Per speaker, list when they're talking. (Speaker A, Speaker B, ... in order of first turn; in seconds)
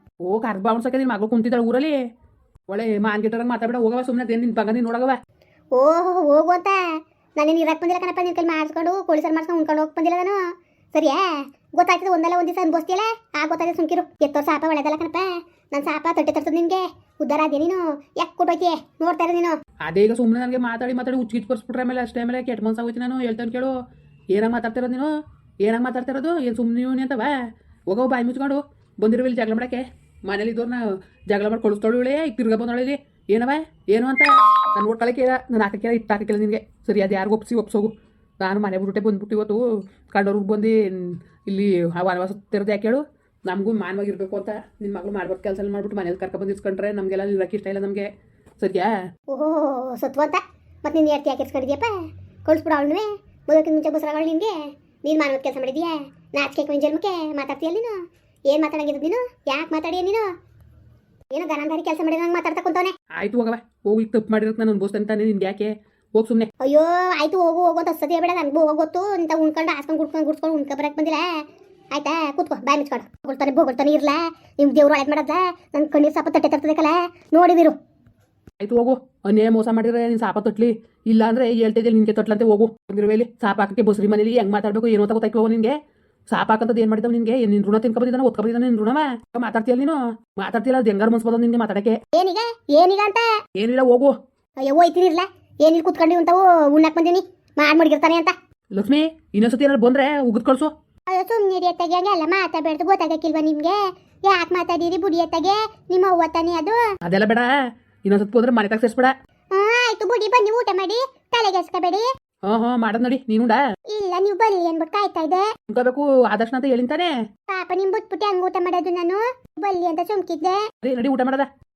Speaker A: 0.2-2.0, 2.7-5.2, 19.9-23.7, 24.3-25.1, 25.6-27.3, 27.9-48.1, 48.6-48.9, 63.1-66.5, 78.6-85.7, 86.3-92.0, 93.5-94.1, 98.7-100.7, 107.0-107.5, 108.0-109.1, 112.4-113.6, 115.7-117.1, 120.8-121.5
Speaker B: 5.7-6.8, 7.4-10.4, 10.9-19.6, 49.3-51.9, 52.5-60.2, 61.3-62.9, 66.6-77.8, 92.1-93.3, 94.6-98.3, 101.1-106.9, 109.5-112.1, 113.9-115.5, 117.5-120.6